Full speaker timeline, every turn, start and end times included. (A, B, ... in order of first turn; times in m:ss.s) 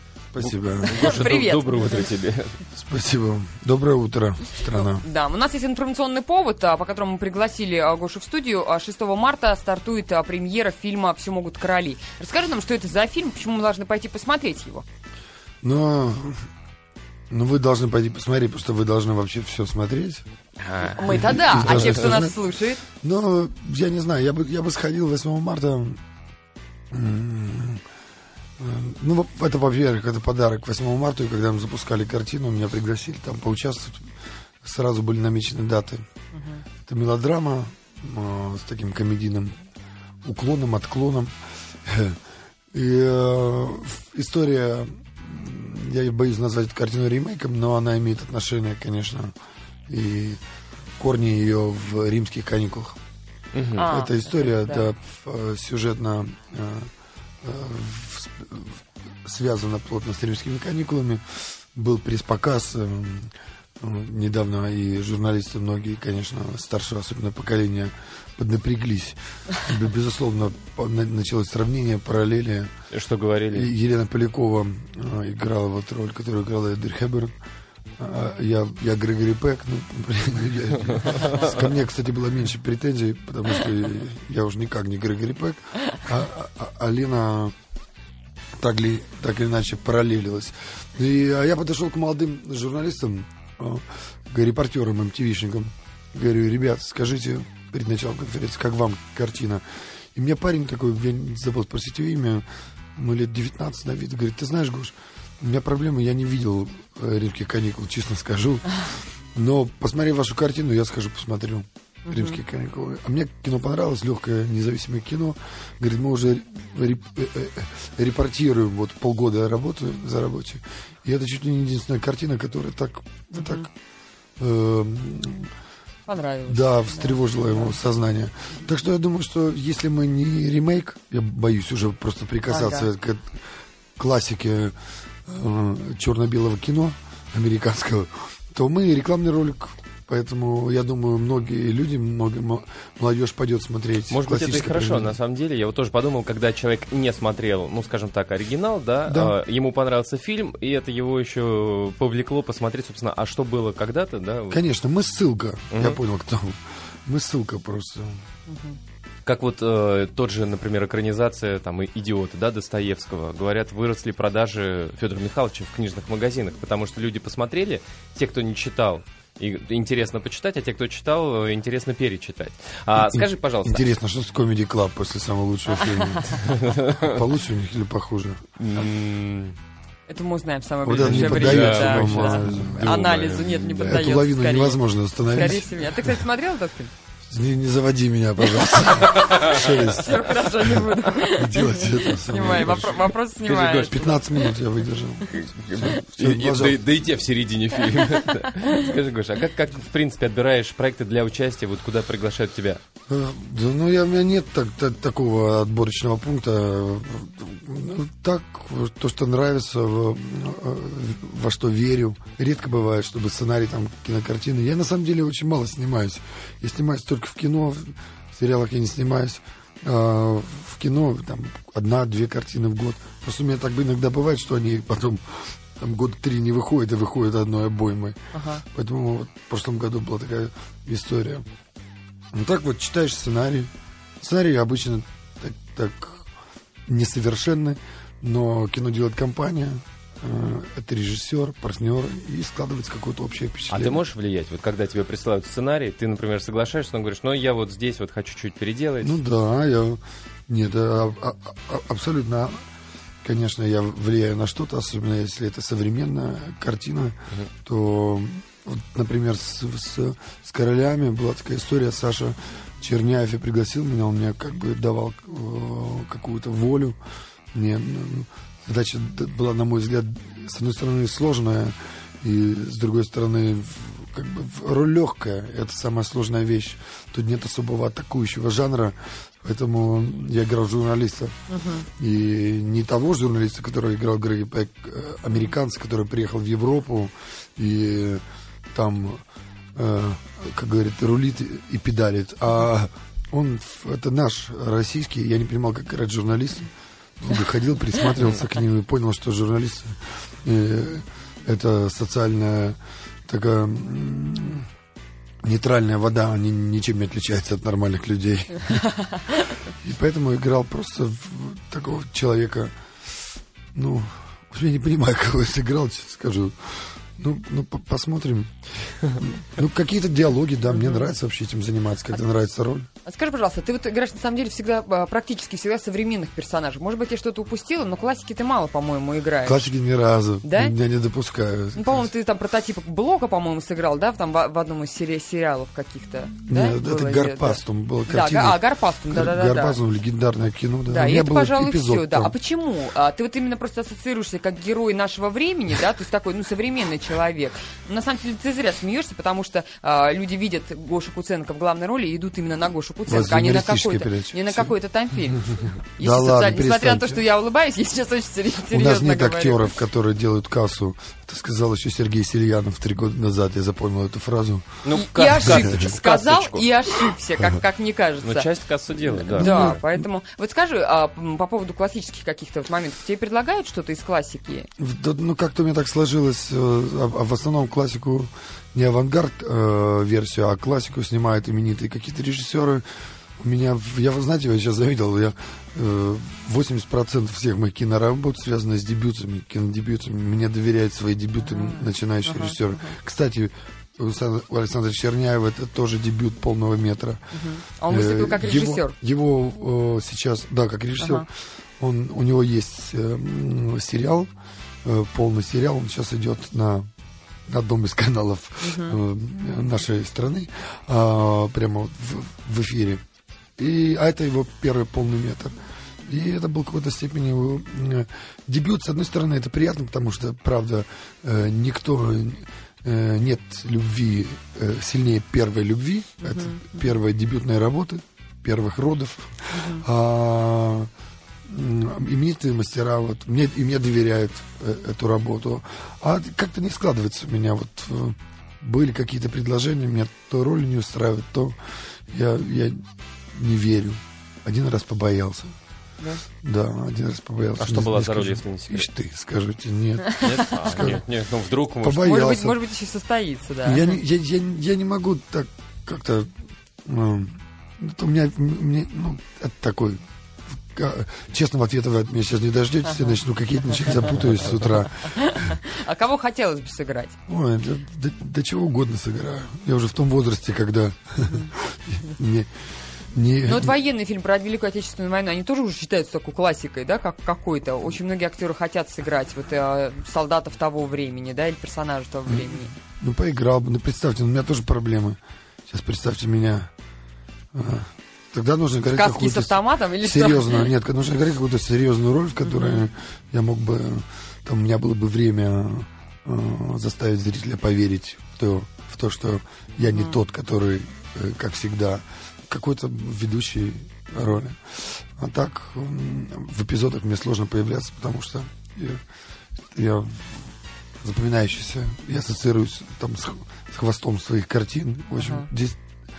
0:00.3-0:01.2 A
0:00.4-0:02.6 B
0:00.8-0:02.1 C
0:02.7-0:05.1 A
0:04.7-0:14.8 C
0:15.6-0:16.5 A
0:17.3-0:20.2 A
0:20.6-0:22.2 B
0:20.8-0:22.8 C
0:21.0-0:22.4 A
0:23.0-0:26.0 A
0:26.9-0:27.8 A
0:28.6-0:36.1 A
0:36.3-0:36.6 C
0:36.9-0:39.6 A
0:40.2-0:42.2 A
0:42.7-0:49.4 A
0:49.9-0:50.4 A
0:51.0-0:53.0 A
0:53.5-0:53.9 B
0:53.8-0:54.9 C
0:53.8-1:12.7 A
1:12.9-1:13.7 B
1:13.5-1:17.4 A
1:18.0-1:27.6 A
1:21.0-1:21.6 B
1:28.5-2:03.7 A
1:52.1-1:52.4 C
2:03.4-2:03.7 C
2:04.4-2:05.5 A
2:06.1-2:07.8 C
2:06.5-2:13.4 A
2:12.5-2:12.9 C
2:14.0-2:25.2 A
2:24.1-2:34.6 B
2:29.1-2:29.4 A
2:34.5-2:38.3 A
2:35.7-2:36.0 B
2:38.5-2:38.8 C
2:39.3-2:53.9 B
2:53.0-2:58.4 A
2:55.8-2:56.3 C
2:56.4-2:57.2 B
2:58.6-2:59.6 B
3:00.1-3:06.9 C
3:00.8-3:06.2 A
3:00.9-3:03.8 B
3:07.3-3:13.1 A
3:09.0-3:09.6 B
3:09.5-3:14.3 C
3:13.4-3:14.1 B
3:13.8-3:16.8 A
3:15.3-3:22.8 B
3:23.1-3:51.4 A
3:48.3-3:48.6 C
3:52.3-3:56.3 A
3:56.9-4:04.0 A
4:03.7-4:09.2 B
4:09.0-4:12.6 A
4:13.2-4:27.0 A
4:27.5-4:41.4 A
4:41.5-4:41.9 C
4:42.0-4:49.2 A
4:49.8-5:04.7 A
5:05.4-5:08.9 A
5:09.0-5:09.5 C
5:09.7-5:12.8 A
5:13.7-5:22.9 A
5:20.8-5:21.1 C
5:23.0-5:29.7 C
5:29.4-5:32.1 A
5:30.4-5:30.8 C
5:31.8-5:39.8 C
5:36.5-5:42.3 A
5:40.9-5:59.7 C
5:53.1-5:54.8 A
5:55.5-5:57.2 A
5:58.7-6:04.8 A
6:04.8-6:06.7 B
6:04.9-6:08.5 C
6:05.5-6:05.7 A
6:08.2-6:09.8 B
6:09.2-6:14.7 C
6:09.3-6:10.1 A
6:14.8-6:22.9 A
6:23.4-6:37.2 A
6:31.4-6:33.0 C
6:37.3-6:39.0 C
6:37.9-6:44.3 A
6:41.0-6:41.3 C
6:44.8-6:46.9 A
6:47.5-6:53.0 A
6:48.6-6:49.0 C
6:53.6-7:10.9 A
7:06.2-7:06.7 C
7:09.5-7:09.8 C
7:11.4-7:25.6 A
7:26.4-7:31.0 A
7:27.6-7:28.9 B
7:30.2-7:32.1 B
7:31.8-7:32.6 A
7:31.9-7:33.9 C
7:33.6-7:36.3 A
7:36.8-7:40.0 A
7:40.6-7:45.6 A
7:45.1-7:47.2 C
7:47.3-7:52.5 A
7:51.2-7:51.5 C
7:53.1-7:53.8 A
7:53.5-8:02.7 C
8:02.3-8:06.7 A
8:07.5-8:29.0 A
8:08.9-8:10.7 C
8:12.4-8:12.8 C
8:19.9-8:20.2 C
8:29.7-8:35.8 A
8:35.2-8:35.5 C